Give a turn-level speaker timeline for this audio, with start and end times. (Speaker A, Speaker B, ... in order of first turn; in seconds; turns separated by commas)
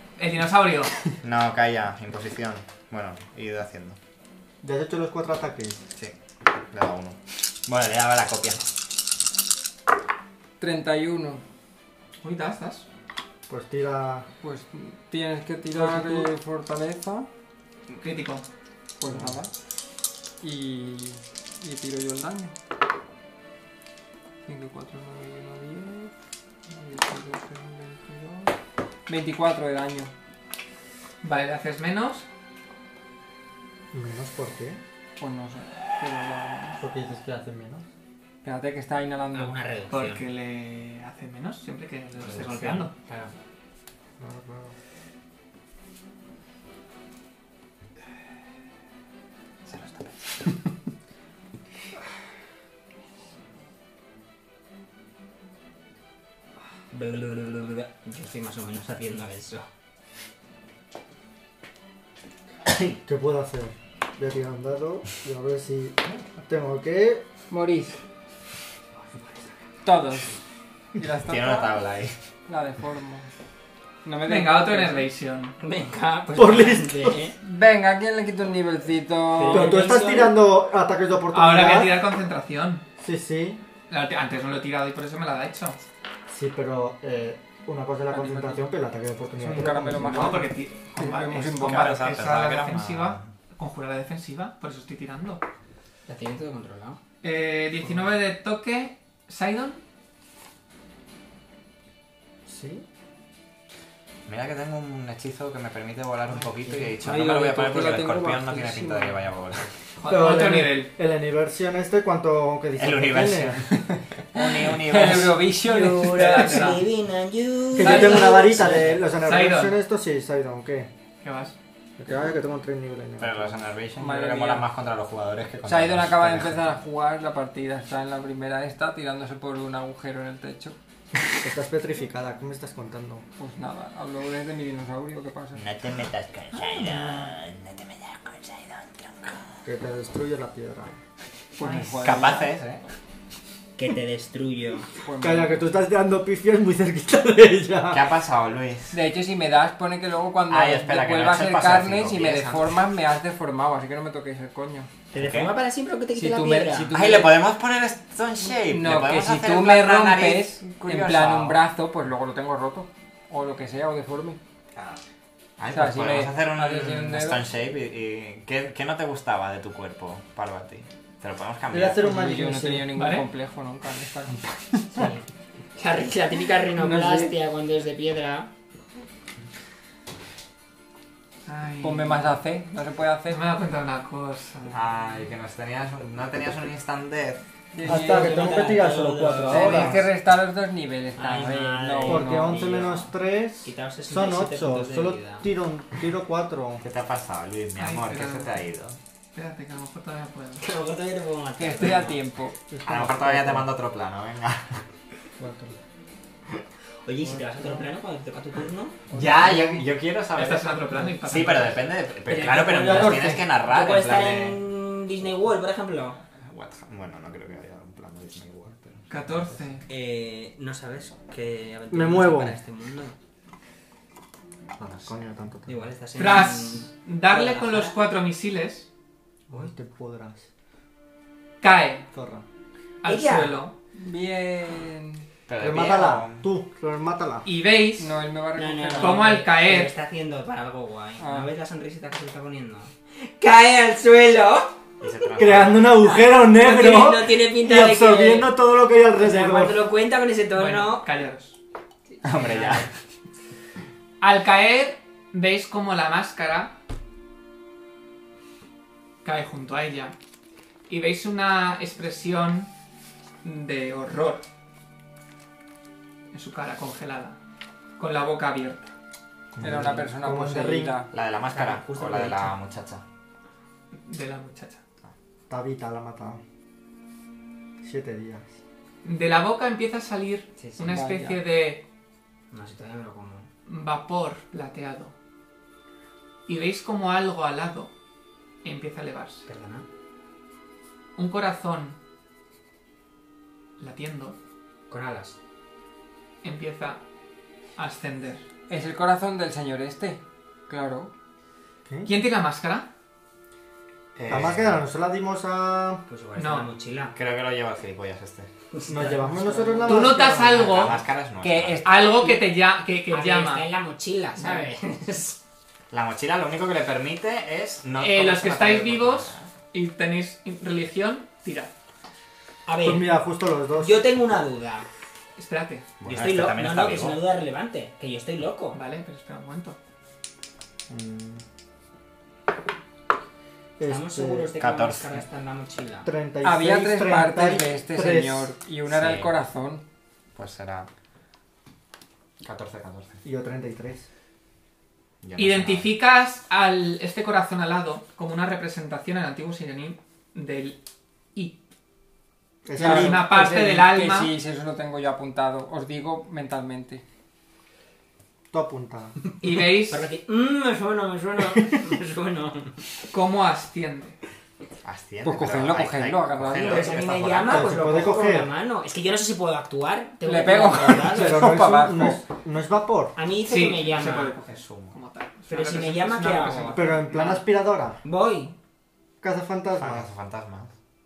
Speaker A: 0.2-0.9, Speaker B: 1.2-4.0, Speaker C: 4.6-5.8, Speaker B: 6.7-8.7, Speaker D: 10.6-11.4, Speaker A: 12.2-12.9, Speaker C: 13.5-14.3, Speaker D: 14.4-17.3, Speaker C: 15.7-16.3, Speaker A: 17.9-18.4, Speaker D: 19.0-19.5, Speaker C: 19.1-19.3, Speaker D: 20.4-22.5, Speaker D: 24.4-26.1, Speaker D: 26.7-28.5, Speaker D: 29.1-30.1, Speaker A: 31.2-32.3, Speaker C: 33.9-34.8, Speaker D: 35.2-36.8, Speaker C: 36.8-37.8, Speaker D: 38.4-39.6, Speaker E: 39.3-40.2, Speaker A: 39.9-42.9, Speaker E: 42.2-43.3, Speaker C: 44.2-44.8, Speaker E: 56.9-59.7, Speaker C: 62.7-67.2, Speaker D: 67.5-68.0, Speaker D: 69.8-70.3, Speaker D: 71.0-71.8, Speaker B: 71.2-72.2, Speaker D: 72.5-73.3, Speaker D: 74.0-75.1, Speaker A: 74.3-75.5, Speaker E: 75.6-77.3, Speaker C: 76.4-77.2, Speaker D: 77.4-80.5, Speaker E: 79.3-80.2, Speaker C: 79.5-82.0, Speaker A: 81.3-82.8, Speaker C: 83.0-83.6, Speaker A: 83.9-85.8, Speaker C: 86.3-90.5, Speaker D: 88.1-88.7, Speaker D: 89.3-92.1, Speaker A: 90.1-95.4, Speaker B: 91.6-93.3, Speaker E: 96.1-97.0, Speaker A: 97.2-99.8, Speaker C: 102.5-102.8, Speaker B: 104.3-109.7, Speaker D: 106.9-109.2, Speaker A: 110.0-110.9, Speaker C: 110.1-114.0, Speaker B: 112.8-115.5, Speaker D: 114.3-116.7, Speaker E: 115.0-119.0, Speaker A: 115.7-116.9, Speaker C: 117.8-120.9, Speaker A: 117.8-119.8, Speaker A: 121.2-121.5, Speaker C: 122.0-123.6, Speaker B: 123.2-126.7, Speaker D: 124.0-124.7, Speaker D: 125.6-130.8, Speaker C: 131.4-133.2, Speaker D: 133.4-135.6, Speaker B: 135.6-139.4, Speaker C: 139.7-140.9, Speaker D: 141.6-142.5, Speaker B: 141.6-142.8, Speaker E: 143.8-144.9, Speaker D: 145.0-145.7, Speaker C: 145.2-148.0, Speaker B: 147.9-148.9, Speaker D: 148.9-154.9, Speaker B: 150.5-152.8, Speaker E: 155.1-157.0, Speaker B: 155.2-155.5, Speaker D: 156.1-157.4, Speaker B: 156.9-161.6, Speaker D: 158.7-164.4, Speaker B: 165.6-172.1, Speaker D: 165.7-167.4, Speaker C: 171.7-172.9, Speaker D: 172.0-174.8, Speaker A: 172.9-173.3, Speaker E: 174.9-175.2, Speaker E: 175.8-178.5, Speaker D: 176.8-177.3, Speaker A: 181.4-182.4, Speaker D: 181.8-183.4, Speaker A: 183.3-184.9, Speaker B: 184.7-187.4, Speaker D: 187.7-188.8, Speaker C: 187.8-190.1, Speaker E: 187.8-190.0, Speaker D: 189.4-192.6, Speaker E: 191.2-195.5, Speaker C: 192.1-196.8, Speaker B: 196.8-199.0, Speaker A: 197.8-198.6, Speaker A: 199.3-200.7, Speaker E: 200.6-202.2, Speaker D: 201.6-202.6, Speaker C: 202.7-203.7, Speaker B: 202.8-204.8, Speaker C: 205.4-205.8, Speaker E: 207.1-209.0, Speaker C: 207.3-207.8, Speaker C: 209.1-209.9, Speaker B: 209.1-214.6, Speaker A: 210.3-211.9, Speaker E: 212.3-216.2, Speaker C: 212.3-213.5, Speaker B: 216.4-219.3, Speaker A: 219.1-219.8, Speaker E: 219.9-223.2, Speaker C: 221.9-222.6, Speaker C: 224.8-225.9, Speaker B: 224.8-225.3, Speaker E: 225.7-228.0, Speaker A: 226.2-228.9, Speaker C: 229.5-230.4, Speaker A: 231.6-232.1, Speaker C: 232.1-232.4, Speaker A: 233.0-233.8, Speaker E: 233.1-233.6, Speaker D: 233.9-235.2, Speaker B: 235.5-236.4, Speaker C: 235.6-237.5, Speaker A: 237.4-238.1, Speaker D: 238.0-239.3, Speaker E: 238.6-244.7, Speaker A: 239.0-239.9, Speaker D: 241.2-241.5, Speaker B: 245.0-246.2, Speaker C: 245.4-249.8, Speaker E: 245.6-248.6, Speaker E: 249.2-251.1, Speaker A: 250.6-251.6, Speaker B: 252.2-252.9, Speaker E: 252.5-252.8, Speaker A: 254.2-256.8, Speaker A: 259.2-260.1, Speaker A: 260.9-262.7, Speaker A: 263.4-264.4, Speaker A: 266.3-267.4, Speaker A: 268.0-268.9, Speaker C: 269.5-271.0, Speaker D: 269.6-271.1, Speaker B: 271.1-273.0, Speaker E: 271.5-272.6, Speaker A: 273.9-274.8, Speaker C: 275.5-276.4, Speaker C: 277.8-278.5, Speaker A: 279.0-281.8, Speaker E: 280.6-281.0, Speaker D: 280.8-281.4, Speaker E: 282.5-283.5, Speaker A: 283.7-285.1, Speaker A: 286.5-287.9, Speaker A: 288.6-289.5, Speaker E: 289.4-289.9, Speaker A: 291.2-292.0, Speaker A: 293.8-294.4, Speaker E: 294.9-295.4, Speaker A: 296.4-297.0, Speaker A: 297.8-298.4, Speaker D: 298.7-301.1, Speaker A: 302.1-302.9, Speaker B: 304.1-304.9, Speaker C: 304.3-306.0, Speaker E: 306.1-307.2, Speaker A: 306.4-306.7, Speaker B: 307.1-308.5, Speaker E: 308.7-310.2, Speaker C: 308.9-310.9, Speaker A: 309.9-311.0, Speaker B: 310.5-311.8, Speaker D: 311.4-311.9, Speaker A: 311.9-313.7, Speaker E: 311.9-312.5, Speaker E: 313.1-315.4, Speaker A: 314.4-314.7, Speaker B: 315.9-319.5, Speaker A: 318.0-321.7, Speaker E: 322.7-323.1, Speaker C: 322.8-324.2, Speaker E: 323.8-324.9, Speaker A: 325.4-325.9, Speaker B: 326.0-327.2, Speaker E: 326.1-328.8, Speaker A: 328.7-329.8, Speaker B: 330.9-331.4, Speaker C: 333.8-334.5, Speaker E: 333.9-336.1, Speaker B: 334.6-335.2, Speaker C: 336.1-338.5, Speaker D: 336.4-339.8, Speaker B: 338.9-339.4, Speaker B: 340.4-340.9, Speaker B: 342.4-343.2, Speaker C: 343.2-344.1, Speaker B: 345.2-345.9, Speaker A: 345.4-350.8, Speaker C: 352.6-353.3, Speaker D: 352.8-357.0, Speaker A: 352.8-354.3, Speaker C: 358.5-359.2, Speaker E: 359.3-362.8, Speaker A: 359.4-360.1, Speaker A: 363.1-364.2, Speaker B: 364.8-367.9, Speaker D: 365.2-366.9, Speaker E: 366.6-371.6, Speaker C: 367.4-368.5, Speaker D: 370.2-372.2, Speaker C: 371.1-373.2, Speaker E: 373.1-374.3, Speaker A: 373.5-377.4, Speaker B: 374.5-374.9, Speaker E: 375.5-377.4, Speaker C: 376.7-378.0, Speaker E: 378.0-378.6, Speaker C: 379.2-380.1, Speaker B: 379.7-380.7